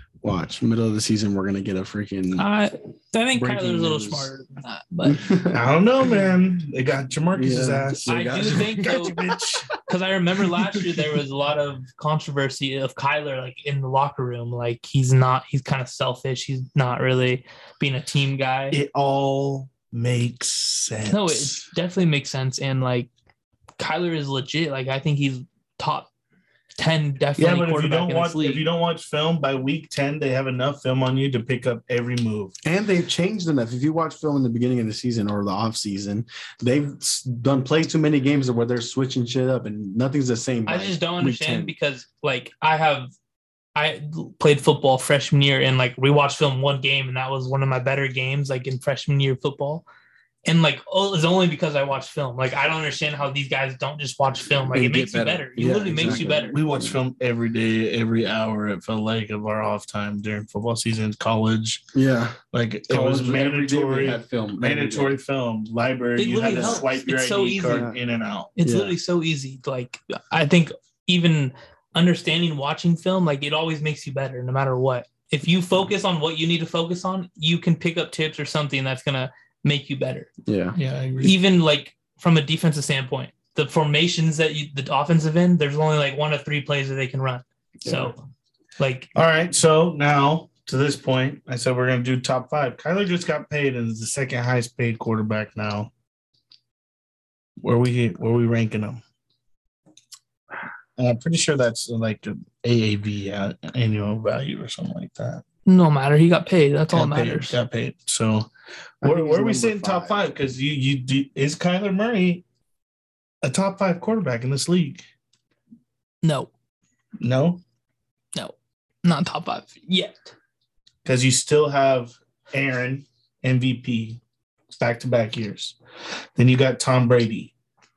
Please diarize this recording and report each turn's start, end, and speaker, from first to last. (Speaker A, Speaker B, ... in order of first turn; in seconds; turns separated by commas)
Speaker A: 0.2-2.5, Speaker B: 2.4-5.2, Speaker A: 3.3-4.3, Speaker A: 5.0-5.6, Speaker C: 5.5-9.7, Speaker A: 7.3-9.3, Speaker B: 8.1-9.1, Speaker B: 9.8-18.8, Speaker C: 18.7-21.6, Speaker B: 21.1-23.1, Speaker B: 23.8-26.1, Speaker B: 26.8-28.6, Speaker C: 27.4-32.5, Speaker A: 32.6-41.7, Speaker B: 40.7-43.1, Speaker B: 43.7-49.8, Speaker B: 50.4-56.6, Speaker A: 54.7-57.0, Speaker C: 56.0-61.8, Speaker A: 61.9-65.2, Speaker C: 62.5-68.5, Speaker B: 66.2-67.9, Speaker A: 66.4-66.8, Speaker A: 67.7-68.0, Speaker B: 68.6-80.3, Speaker A: 68.6-68.9, Speaker A: 80.5-80.8, Speaker C: 80.8-81.4, Speaker B: 81.2-88.1, Speaker A: 87.8-88.1, Speaker B: 88.8-89.1, Speaker C: 89.1-95.9, Speaker C: 97.6-99.0, Speaker C: 101.0-105.4, Speaker B: 105.7-107.6, Speaker C: 106.9-108.5, Speaker A: 109.0-110.3, Speaker C: 109.0-112.4, Speaker C: 113.4-115.0, Speaker B: 116.2-116.5, Speaker C: 117.2-117.6, Speaker B: 118.3-120.3, Speaker C: 121.0-124.2, Speaker C: 124.7-125.8, Speaker C: 126.3-127.5